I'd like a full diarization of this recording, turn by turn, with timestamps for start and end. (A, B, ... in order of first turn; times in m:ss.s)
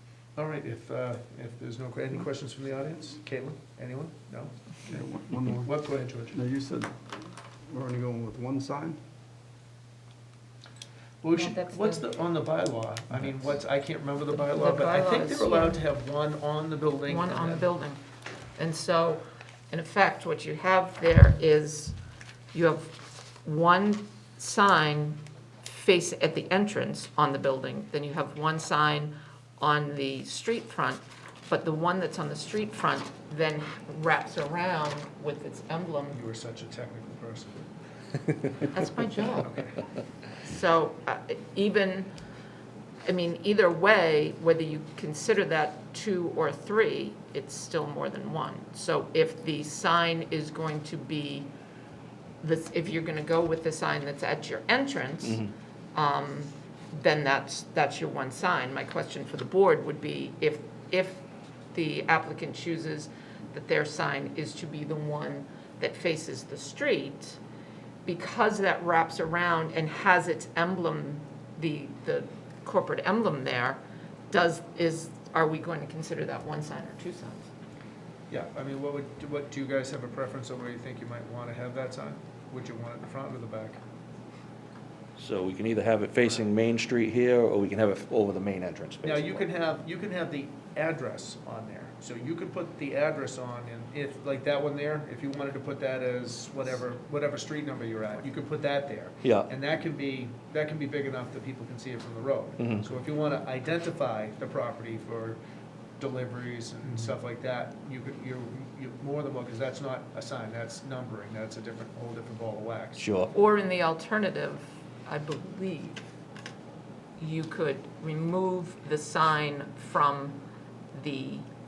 0:00.4-0:06.4 A
0:04.9-0:05.7 B
0:06.3-0:06.9 B
0:07.7-0:09.0 B
0:11.2-0:17.7 A
0:11.3-0:12.0 C
0:14.4-0:15.8 C
0:17.1-0:18.0 C
0:18.6-0:22.0 C
0:22.5-0:36.2 C
0:36.1-0:37.7 A
0:38.7-0:39.7 C
0:39.4-0:39.7 A
0:40.4-0:42.1 C
0:43.0-0:51.5 C
0:52.4-1:07.4 C
1:08.0-1:13.8 C
1:14.3-1:17.5 C
1:18.3-1:23.8 A
1:25.2-1:29.5 D
1:29.0-1:45.4 A
1:39.2-1:39.5 D
1:46.0-1:53.0 A
1:53.0-1:53.3 D
1:53.3-1:56.0 C
1:57.2-2:00.4 C
2:00.9-2:01.5 C